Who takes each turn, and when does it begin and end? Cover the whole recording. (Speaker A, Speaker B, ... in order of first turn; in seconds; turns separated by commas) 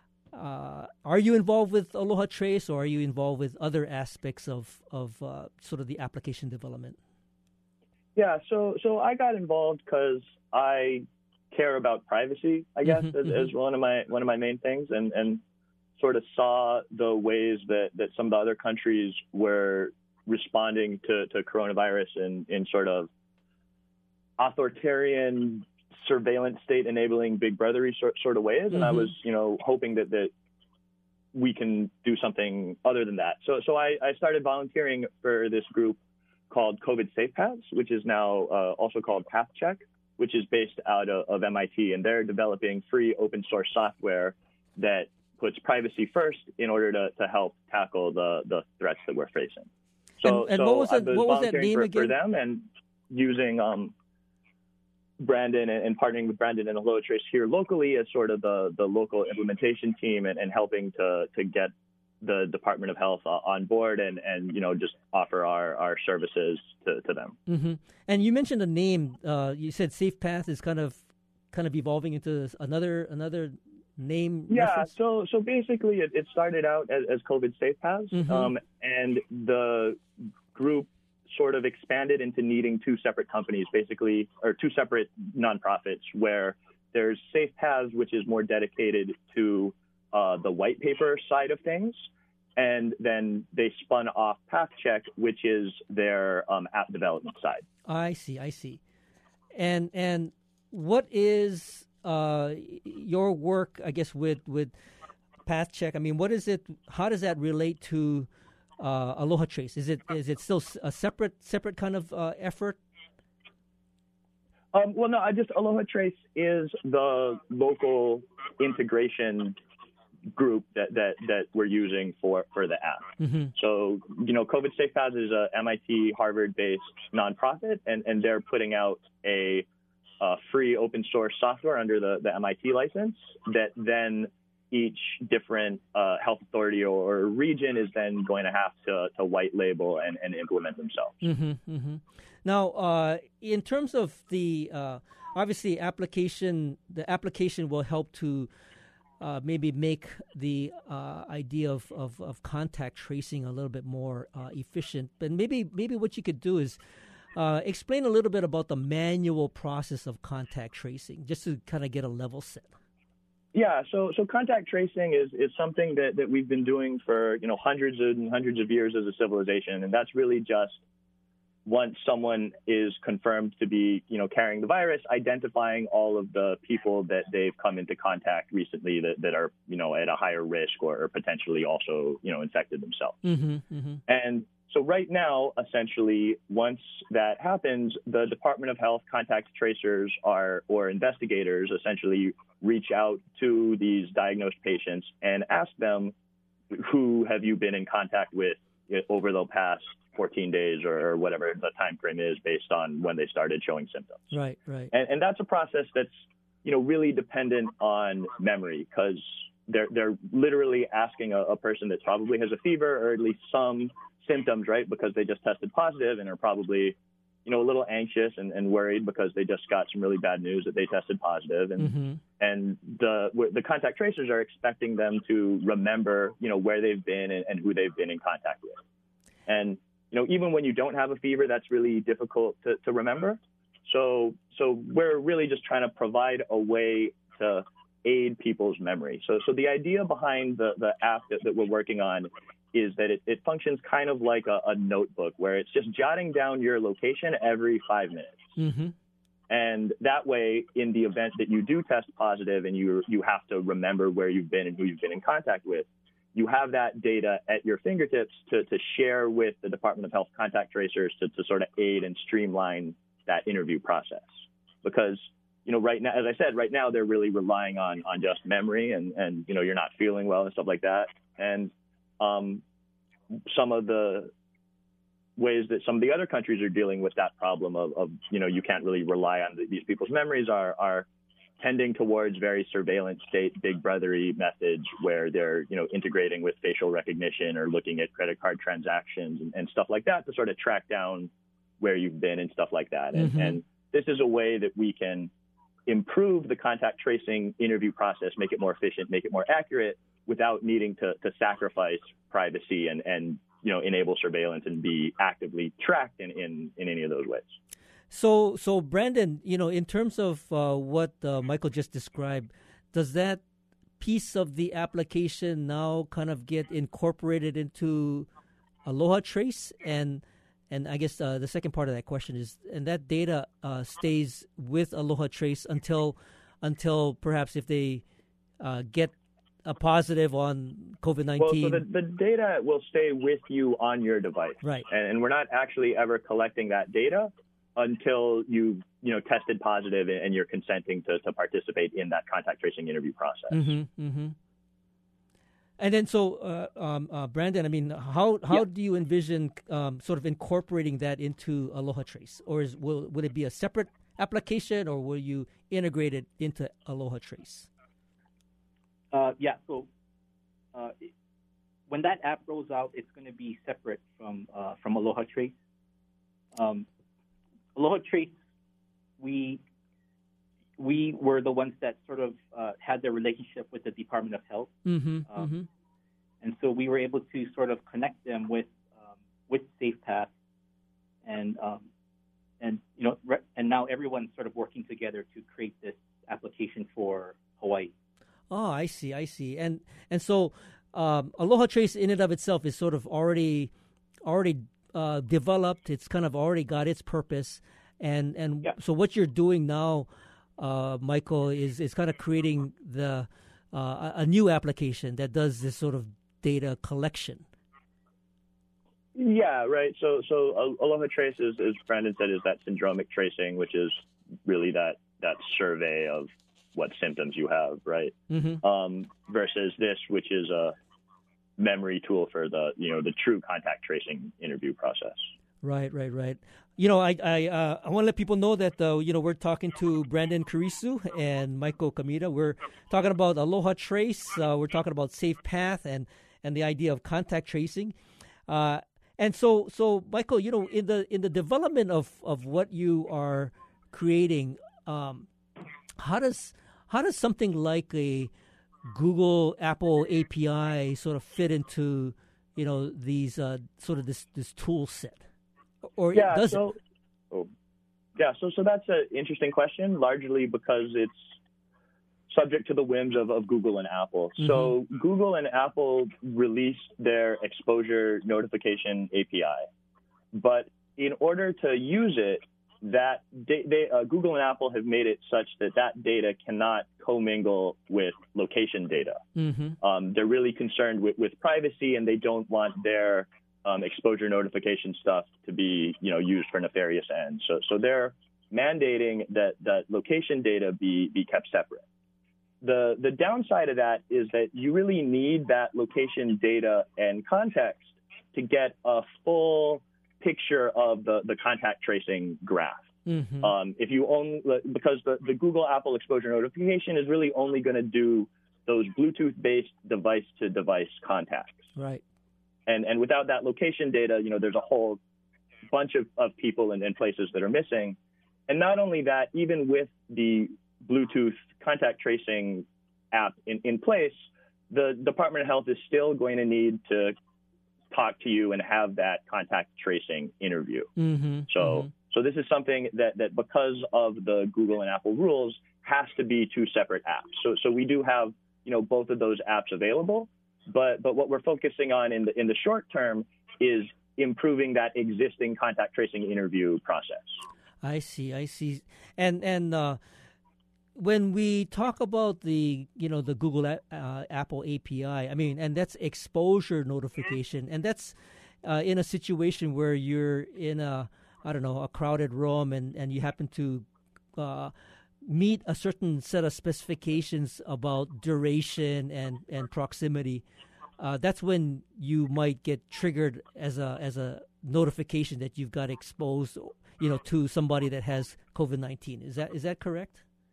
Speaker A: 0.3-7.0, Speaker B: 8.2-15.4, Speaker A: 12.9-13.1, Speaker B: 16.0-23.1, Speaker B: 24.4-30.3, Speaker A: 28.7-29.1, Speaker B: 31.3-36.0, Speaker B: 36.5-53.9, Speaker A: 50.2-52.1, Speaker B: 55.2-67.4, Speaker A: 67.5-74.9, Speaker B: 74.5-80.0, Speaker A: 78.1-78.5, Speaker B: 80.5-97.6, Speaker A: 97.9-98.8, Speaker A: 99.5-104.7, Speaker A: 105.5-112.8, Speaker B: 114.7-119.6, Speaker B: 120.3-129.7, Speaker A: 123.2-123.5, Speaker B: 130.2-141.2, Speaker A: 141.2-148.5, Speaker A: 149.2-156.8, Speaker A: 157.3-162.7, Speaker B: 163.5-170.8, Speaker B: 171.7-183.2, Speaker A: 183.2-184.0, Speaker B: 184.1-196.1, Speaker B: 196.7-204.3, Speaker A: 204.3-204.9, Speaker B: 204.9-206.1, Speaker B: 206.7-228.8, Speaker A: 221.8-222.2, Speaker B: 229.5-248.4, Speaker A: 248.6-248.9, Speaker B: 249.5-272.6, Speaker B: 273.5-274.3, Speaker B: 275.4-281.1, Speaker B: 281.6-295.3, Speaker A: 293.2-293.6, Speaker B: 295.9-307.6, Speaker A: 308.1-313.4, Speaker A: 314.0-318.3, Speaker A: 318.9-328.0, Speaker A: 328.6-329.1, Speaker A: 329.6-331.8, Speaker B: 331.4-343.6, Speaker A: 343.5-344.4, Speaker A: 345.8-357.7, Speaker C: 359.1-359.9, Speaker C: 360.7-361.1, Speaker C: 361.9-365.5, Speaker C: 366.5-366.9, Speaker C: 367.8-368.3, Speaker C: 369.2-369.6, Speaker C: 370.8-375.6, Speaker A: 374.9-375.7, Speaker C: 376.4-378.9, Speaker C: 379.5-380.3, Speaker C: 381.2-381.9, Speaker C: 382.6-387.9, Speaker A: 388.5-393.7, Speaker A: 394.2-400.1, Speaker A: 400.6-407.4, Speaker B: 409.1-420.8, Speaker A: 418.3-418.6, Speaker B: 421.6-425.3, Speaker A: 425.6-438.0, Speaker A: 438.5-445.3, Speaker A: 446.0-448.3, Speaker A: 448.9-455.2, Speaker A: 455.9-456.6, Speaker B: 456.1-456.8, Speaker B: 458.2-461.4, Speaker B: 462.3-469.7, Speaker A: 464.4-464.7, Speaker B: 470.3-479.2, Speaker A: 479.4-479.8, Speaker B: 479.8-491.9, Speaker B: 492.6-502.9, Speaker A: 503.1-503.5, Speaker B: 503.4-511.6, Speaker A: 511.8-512.0, Speaker B: 512.7-515.0, Speaker B: 515.7-518.0, Speaker B: 518.5-527.1, Speaker B: 527.9-530.9, Speaker A: 531.0-531.9, Speaker B: 531.5-547.4, Speaker A: 547.8-550.0, Speaker A: 551.0-564.7, Speaker A: 565.2-570.5, Speaker A: 571.0-580.2